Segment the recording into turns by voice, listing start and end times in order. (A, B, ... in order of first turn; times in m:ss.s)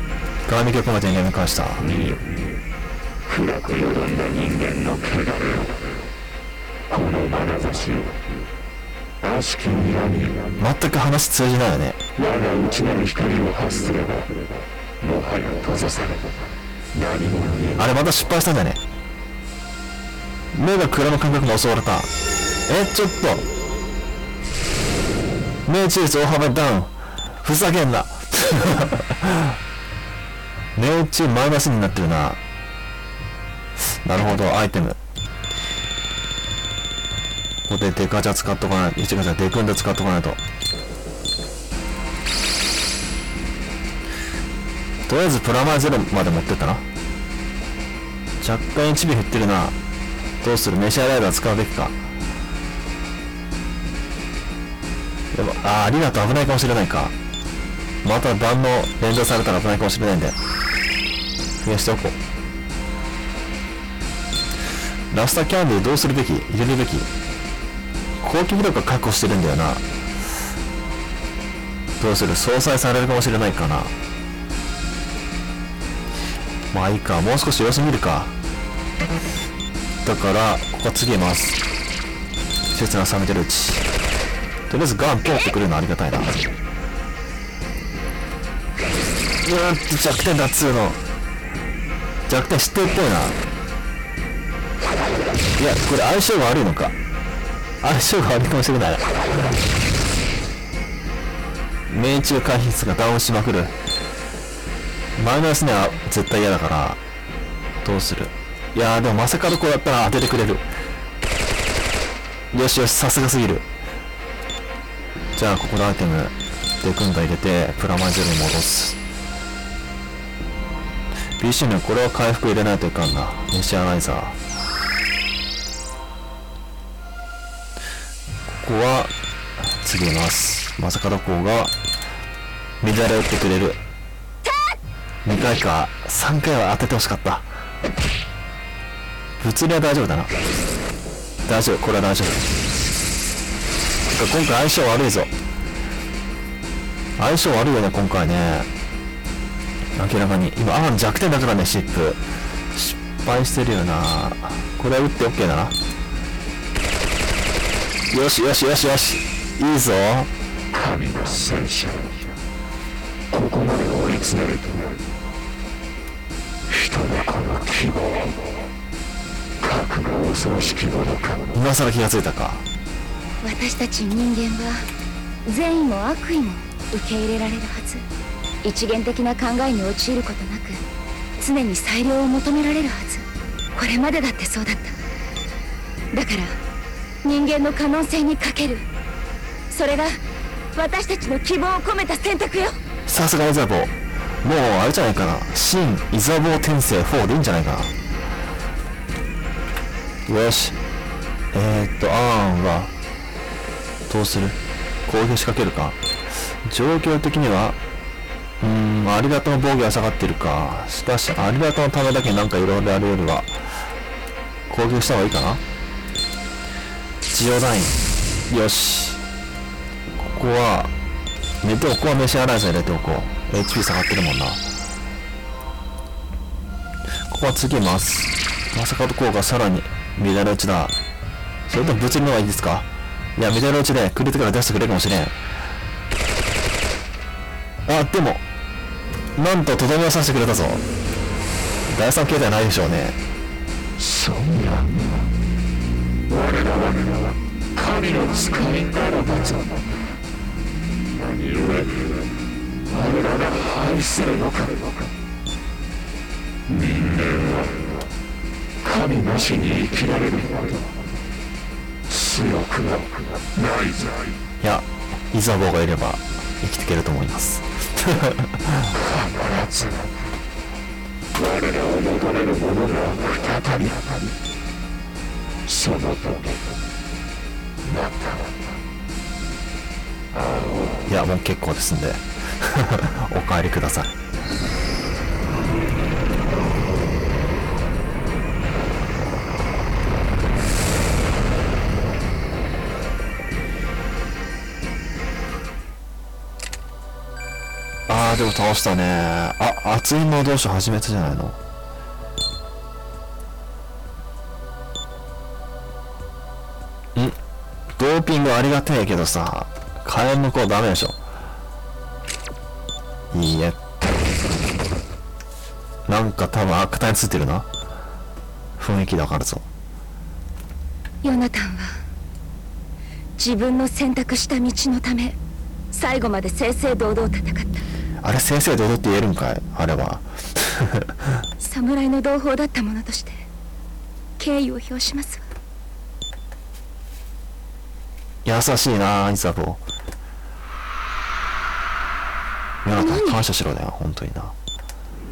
0:00.4-0:01.9 A
0:01.8-0:02.3 B
0:03.3-0:05.8 B
0:06.9-0:08.2 B
0:09.2-0:10.5 B
0:10.6-0:12.0 A
0:12.2-0:14.3 B
0:15.0-0:16.2 B
0:16.9-0:17.8 B
0:17.8-0:18.8 A
0:20.5-0:22.1 A
0:22.7-0:23.4 A
0:25.6-0:29.5 A
0:30.7-0:32.4 A
0:34.0-0:35.0 A
0:37.7-0:40.4 A
0:45.1-0:46.8 A
0:48.4-0:49.7 A
0:50.4-0:52.0 A
0:55.3-0:57.1 A
0:58.0-1:00.4 A
1:01.6-1:02.2 A
1:05.1-1:07.1 A
1:08.2-1:09.8 A
1:12.0-1:13.9 A
1:16.7-1:18.3 A
1:20.0-1:21.6 A
1:22.7-1:23.8 A
1:24.7-1:26.3 A
1:29.4-1:31.0 A
1:32.3-1:33.4 A
1:35.6-1:36.9 A
1:37.8-1:39.6 A
1:41.9-1:43.7 A
1:45.2-1:47.0 A
1:47.8-1:50.6 A
1:52.5-1:53.6 A
1:55.4-1:59.0 A
2:01.4-2:04.4 A
2:08.5-2:09.1 A
2:09.7-2:11.7 A
2:12.8-2:13.8 A
2:15.2-2:17.5 A
2:19.4-2:20.3 A
2:21.4-2:22.4 A
2:24.1-2:25.3 A
2:27.2-2:28.7 A
2:30.0-2:32.2 A
2:32.7-2:35.8 A
2:38.1-2:40.3 A
2:40.7-2:42.3 B
2:43.3-2:45.0 B
2:46.7-2:48.3 B
2:49.6-2:51.4 B
2:51.5-2:52.6 A
2:53.4-2:54.9 C
2:55.4-2:58.0 C
2:58.6-3:00.8 C
3:01.4-3:05.0 C
3:06.1-3:06.6 C
3:07.2-3:08.9 C
3:09.7-3:10.2 C
3:10.7-3:12.8 C
3:13.1-3:17.9 A
3:20.3-3:20.8 A
3:21.5-3:22.9 A
3:24.1-3:26.0 A
3:26.6-3:27.8 A
3:28.6-3:33.7 A
3:34.7-3:35.6 A
3:37.3-3:39.2 A
3:40.2-3:40.9 A
3:41.6-3:44.6 A
3:47.3-3:50.9 A
3:51.7-3:55.4 A
3:57.8-3:58.4 A
3:59.4-4:00.8 A
4:01.9-4:03.2 A
4:04.0-4:05.1 B
4:06.3-4:07.2 B
4:07.8-4:09.7 B
4:11.2-4:12.2 B
4:12.9-4:14.9 B
4:16.7-4:17.9 B
4:18.8-4:20.8 B
4:22.1-4:24.3 B
4:24.6-4:28.9 A
4:29.1-4:30.0 B
4:31.3-4:34.3 B
4:35.7-4:36.7 B
4:37.9-4:38.5 B
4:40.4-4:40.9 B
4:41.1-4:44.2 A
4:58.1-5:01.6 A
5:08.0-5:11.2 A
5:13.3-5:13.8 A
5:16.1-5:17.7 A
5:18.8-5:19.6 A
5:21.2-5:22.0 C
5:23.4-5:25.4 C
5:25.9-5:27.8 C
5:28.2-5:31.1 A
5:31.6-5:33.4 C
5:34.4-5:35.4 C
5:38.4-5:39.8 A
5:42.8-5:44.5 A
5:42.9-5:43.4 C